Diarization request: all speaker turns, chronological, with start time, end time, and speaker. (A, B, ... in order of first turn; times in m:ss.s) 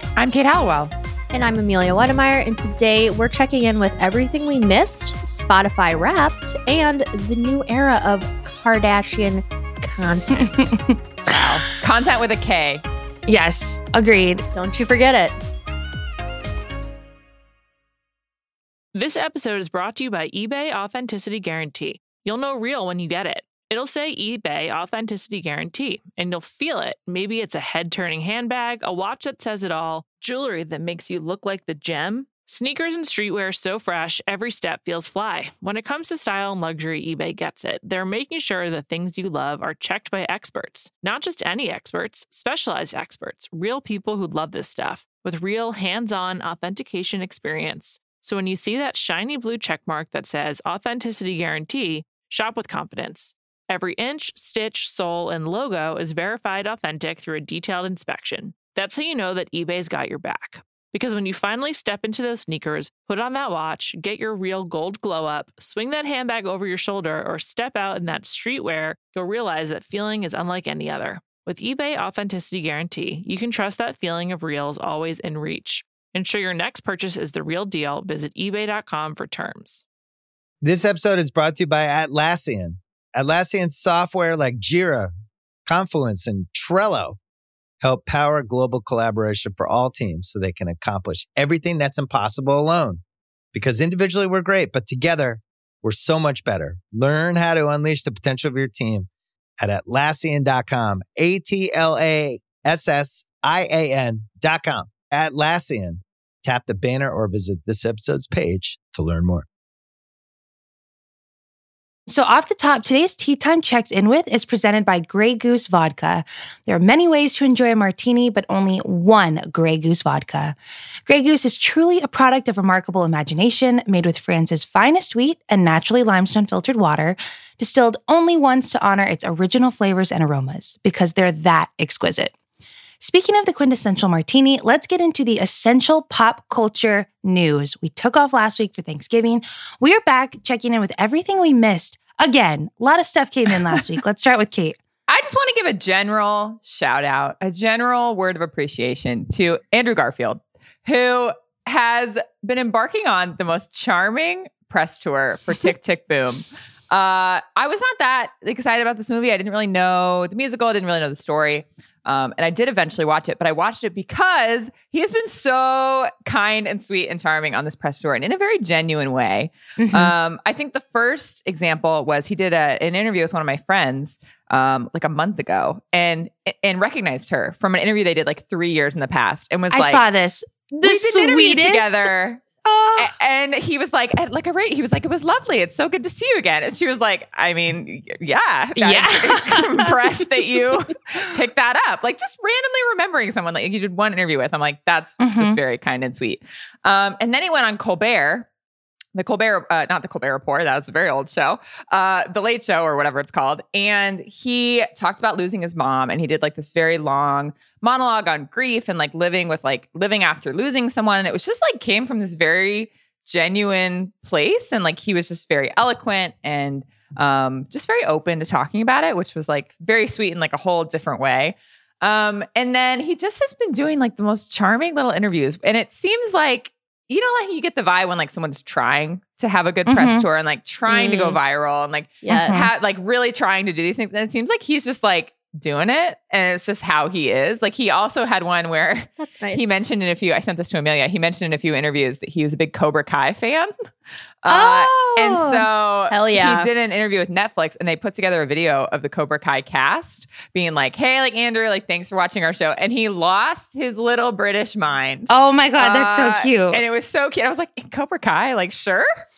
0:00.2-0:00.9 A
0:01.3-0:10.8 B
0:11.3-0:12.8 A
0:11.3-0:11.6 C
0:13.3-0:14.4 C
0:14.5-0:15.3 B
0:18.9-1:19.8 D
1:20.6-1:25.1 E
1:25.6-1:27.2 E
1:27.8-1:33.0 E
1:33.5-1:39.1 E
1:39.6-1:49.4 E
1:52.1-2:12.3 C
2:13.0-2:24.8 C
2:25.1-3:00.0 A
2:49.8-2:50.1 C
2:59.7-3:02.1 C
3:00.8-3:02.4 A
3:02.6-3:03.1 C
3:03.0-3:18.5 A
3:08.8-3:09.9 C
3:15.2-3:15.6 C
3:19.1-4:03.7 A
3:49.9-3:50.2 C
3:50.9-3:51.4 B
3:52.2-3:52.7 B
3:52.3-3:52.7 C
3:59.2-3:59.7 B
4:04.4-4:19.1 A
4:04.5-4:05.6 C
4:06.1-4:06.7 B
4:15.3-4:16.8 C